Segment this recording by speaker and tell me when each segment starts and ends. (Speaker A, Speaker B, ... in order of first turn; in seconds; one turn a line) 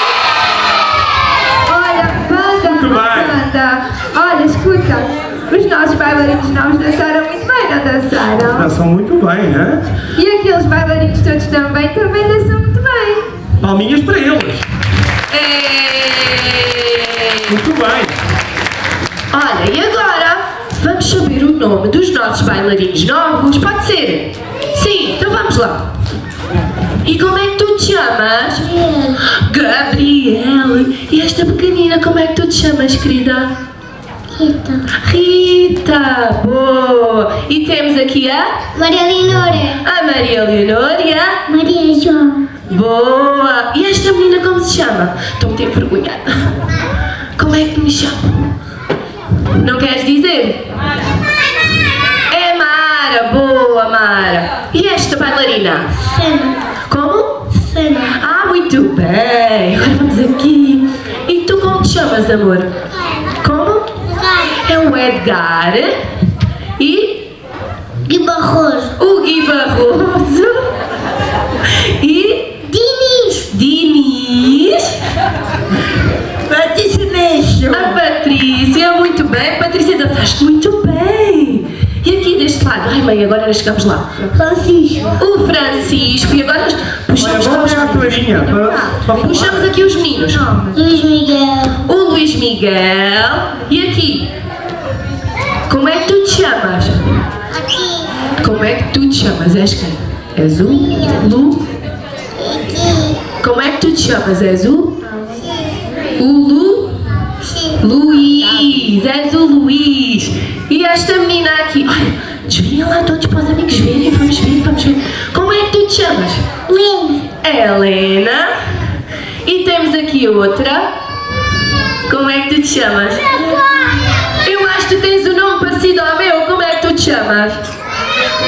Speaker A: 1.7-8.7
Speaker B: 2.6-3.4
Speaker B: 8.5-9.8
Speaker A: 10.2-13.3
Speaker B: 13.6-14.7
Speaker C: 15.3-17.5
Speaker B: 17.5-18.2
Speaker C: 19.3-25.8
Speaker C: 27.0-33.5
Speaker D: 28.7-29.1
Speaker D: 34.4-34.8
Speaker C: 34.9-38.5
Speaker D: 38.8-39.8
Speaker C: 39.8-41.4
Speaker D: 41.5-42.4
Speaker C: 42.7-46.5
Speaker C: 47.4-48.5
Speaker C: 49.6-50.6
Speaker C: 52.3-55.9
Speaker D: 56.0-56.6
Speaker C: 56.9-57.5
Speaker D: 57.5-58.1
Speaker C: 58.1-62.8
Speaker C: 63.4-64.0
Speaker D: 64.1-64.5
Speaker C: 64.6-66.0
Speaker C: 66.8-67.3
Speaker D: 68.1-68.9
Speaker C: 69.0-70.6
Speaker C: 71.7-72.7
Speaker D: 72.7-73.4
Speaker C: 73.5-75.0
Speaker D: 76.5-77.8
Speaker C: 77.7-84.3
Speaker D: 84.4-85.1
Speaker C: 85.2-88.3
Speaker B: 87.2-89.6
Speaker A: 88.3-89.0
Speaker C: 89.1-90.4
Speaker A: 90.3-90.8
Speaker D: 90.7-91.7
Speaker C: 91.9-94.3
Speaker C: 95.7-97.0
Speaker D: 97.5-98.1
Speaker C: 98.4-101.6
Speaker D: 102.4-103.2
Speaker C: 103.4-104.9
Speaker C: 106.2-107.0
Speaker C: 107.8-116.5
Speaker D: 116.7-117.2
Speaker C: 117.4-118.5
Speaker C: 119.5-120.9
Speaker C: 122.1-123.2
Speaker C: 124.4-127.6